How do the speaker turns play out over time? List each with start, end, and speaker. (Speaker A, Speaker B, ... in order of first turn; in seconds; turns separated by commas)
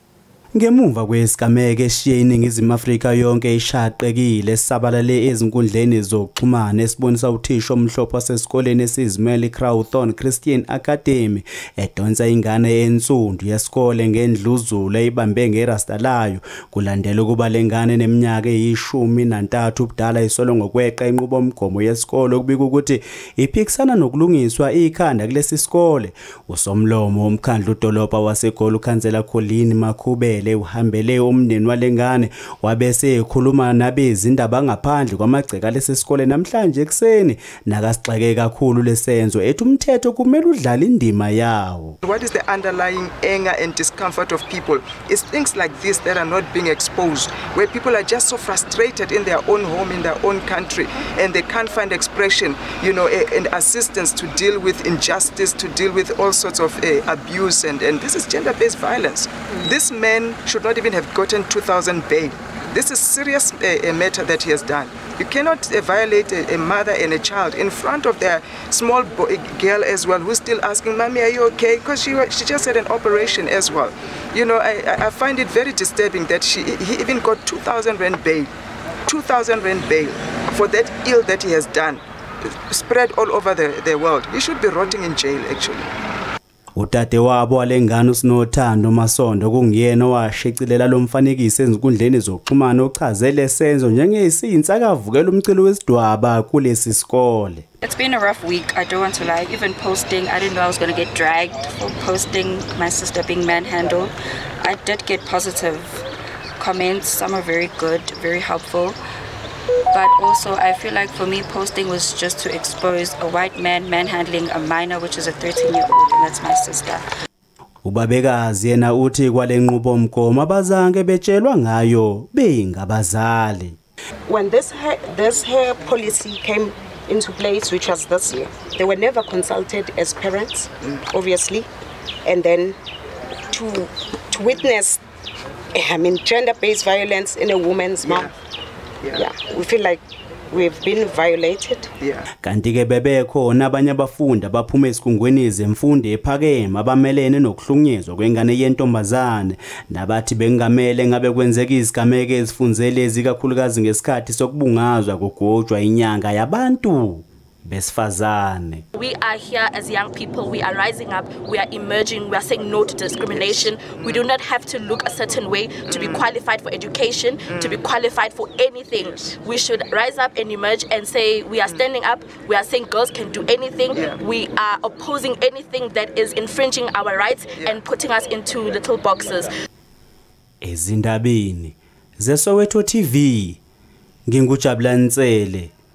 Speaker A: 0.5-42.0, Speaker B: 42.0-78.5, Speaker B: 79.1-85.9, Speaker A: 86.8-97.6, Speaker C: 97.8-106.0, Speaker C: 106.6-109.0, Speaker C: 109.9-117.0, Speaker A: 117.8-123.8, Speaker D: 124.3-131.7, Speaker D: 132.2-132.8, Speaker D: 133.5-135.0, Speaker D: 135.7-138.3, Speaker B: 138.0-138.3, Speaker D: 139.1-141.9, Speaker B: 142.0-142.3, Speaker A: 142.4-158.8, Speaker E: 158.9-179.5, Speaker B: 163.3-164.2, Speaker B: 165.9-166.3, Speaker B: 167.5-167.8, Speaker B: 169.0-169.3, Speaker B: 173.9-174.2, Speaker A: 180.6-183.6, Speaker A: 184.3-185.7